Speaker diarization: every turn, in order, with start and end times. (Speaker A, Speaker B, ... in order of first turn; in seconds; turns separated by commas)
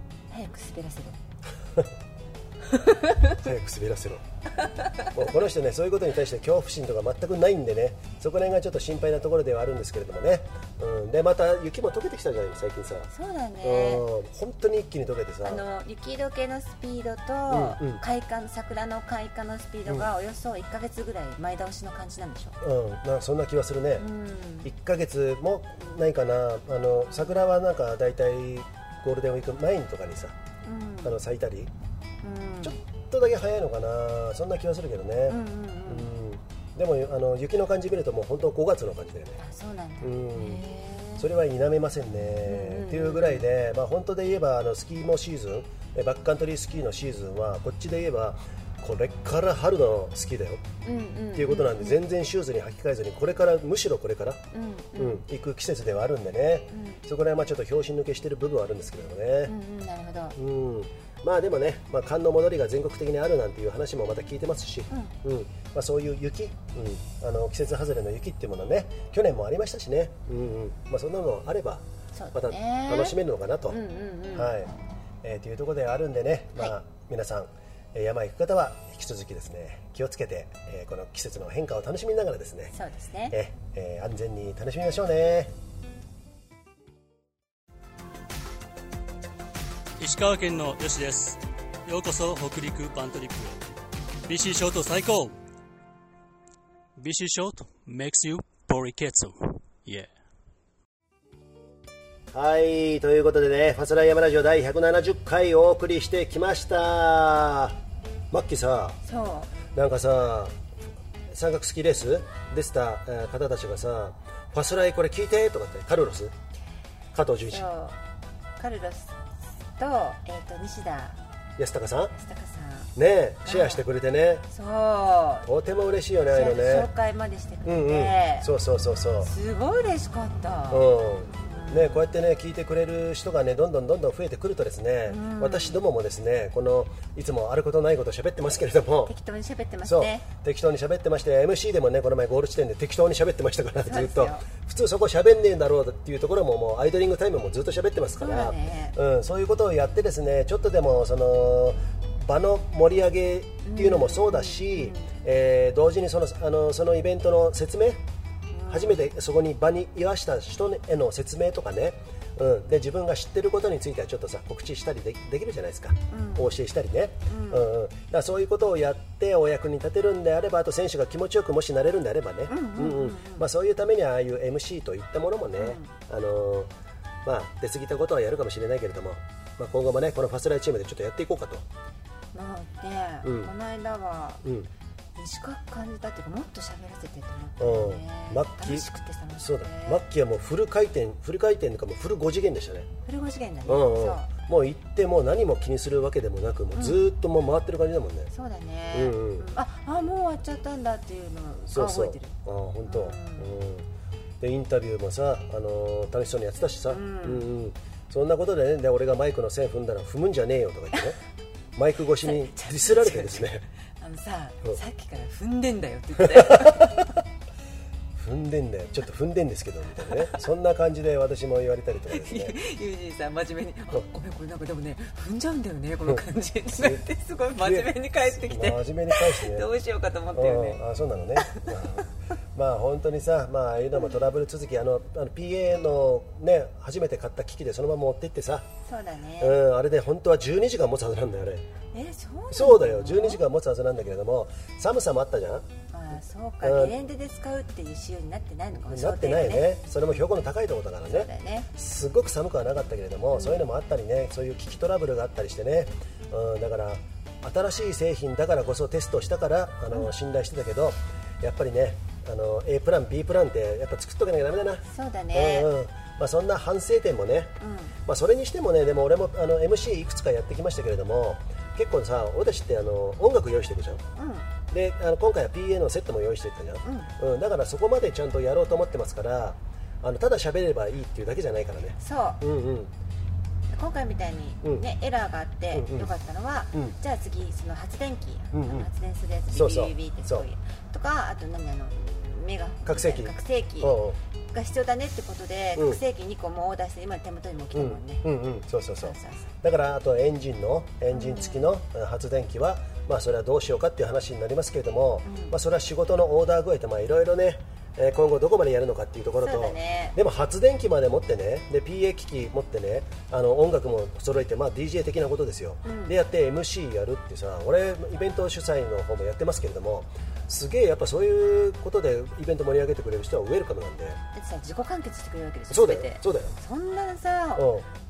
Speaker A: 0.3-1.2, Speaker A: 2.7-3.4, Speaker B: 3.3-4.2, Speaker B: 5.1-13.1, Speaker A: 13.1-14.1, Speaker B: 13.6-15.6, Speaker A: 15.4-22.6, Speaker B: 17.5-18.0, Speaker B: 22.6-24.1, Speaker A: 24.0-24.7, Speaker B: 24.6-30.4, Speaker A: 30.6-31.1, Speaker B: 31.0-31.7, Speaker A: 32.2-32.8, Speaker B: 32.6-39.4, Speaker A: 35.3-36.1, Speaker A: 39.4-41.2, Speaker B: 40.0-40.6, Speaker B: 41.2-50.6, Speaker A: 42.4-43.4, Speaker A: 50.8-52.0, Speaker B: 51.3-54.4, Speaker A: 54.5-55.2, Speaker B: 55.0-59.5, Speaker A: 56.7-57.0, Speaker A: 59.4-60.4, Speaker B: 60.4-73.8, Speaker A: 64.9-65.1, Speaker A: 72.1-73.2, Speaker A: 73.7-74.7, Speaker B: 74.3-74.7, Speaker B: 75.2-82.7, Speaker A: 82.7-83.4, Speaker B: 83.3-85.5, Speaker C: 90.0-93.6, Speaker C: 94.3-95.3, Speaker C: 97.0-100.1, Speaker B: 102.3-107.8, Speaker B: 108.3-109.0, Speaker A: 109.0-109.5, Speaker B: 109.7-110.6, Speaker B: 111.3-116.3, Speaker B: 117.1-117.7, Speaker A: 117.5-118.0, Speaker A: 118.6-121.2, Speaker B: 121.6-122.1, Speaker A: 122.1-122.9, Speaker B: 123.0-124.5, Speaker A: 123.5-123.8, Speaker A: 124.5-125.5, Speaker B: 125.5-126.9, Speaker A: 126.3-128.5, Speaker B: 127.7-129.3, Speaker A: 129.2-132.0, Speaker B: 130.7-139.1, Speaker A: 135.1-135.8, Speaker A: 139.1-140.2, Speaker B: 139.8-158.0, Speaker A: 143.8-144.4, Speaker A: 148.2-148.9, Speaker A: 153.6-155.1, Speaker A: 158.5-159.1, Speaker B: 158.7-176.7, Speaker A: 166.1-166.5, Speaker A: 167.3-167.7, Speaker A: 172.5-173.5, Speaker A: 175.6-175.9, Speaker B: 177.2-181.7, Speaker A: 182.3-184.4, Speaker B: 183.2-183.5, Speaker B: 184.4-184.7, Speaker A: 185.2-190.0, Speaker B: 187.6-188.8, Speaker B: 189.4-192.9, Speaker A: 193.0-194.3, Speaker B: 193.7-198.3, Speaker A: 196.7-197.1, Speaker A: 198.3-202.3, Speaker B: 198.9-199.4, Speaker B: 201.7-203.9, Speaker A: 202.8-203.6, Speaker B: 204.4-211.2, Speaker A: 206.9-207.4, Speaker B: 211.7-213.7, Speaker A: 212.2-217.2, Speaker B: 216.2-217.1, Speaker B: 218.2-222.6, Speaker A: 220.1-220.4, Speaker A: 222.1-230.8, Speaker B: 226.7-227.0, Speaker B: 227.6-229.7, Speaker B: 230.3-238.7, Speaker A: 231.4-231.9, Speaker A: 238.8-239.6, Speaker B: 239.4-241.7, Speaker A: 241.9-243.4, Speaker B: 242.5-245.7, Speaker A: 245.9-250.2, Speaker B: 246.6-246.9, Speaker B: 248.8-274.0, Speaker A: 251.1-251.7, Speaker A: 253.3-253.6, Speaker A: 264.8-265.7, Speaker A: 267.6-267.9, Speaker A: 274.1-274.4, Speaker B: 274.7-282.9, Speaker A: 276.8-277.1, Speaker A: 282.0-282.4, Speaker A: 283.7-293.9, Speaker B: 285.7-286.1, Speaker B: 288.5-288.9, Speaker B: 289.5-290.4, Speaker B: 292.9-294.2, Speaker A: 294.5-298.2, Speaker B: 297.7-324.2, Speaker A: 299.0-299.5, Speaker A: 301.1-301.7, Speaker A: 305.2-305.5, Speaker A: 309.4-310.1, Speaker A: 315.8-316.1, Speaker A: 324.3-327.7, Speaker B: 325.7-326.5, Speaker B: 327.5-327.9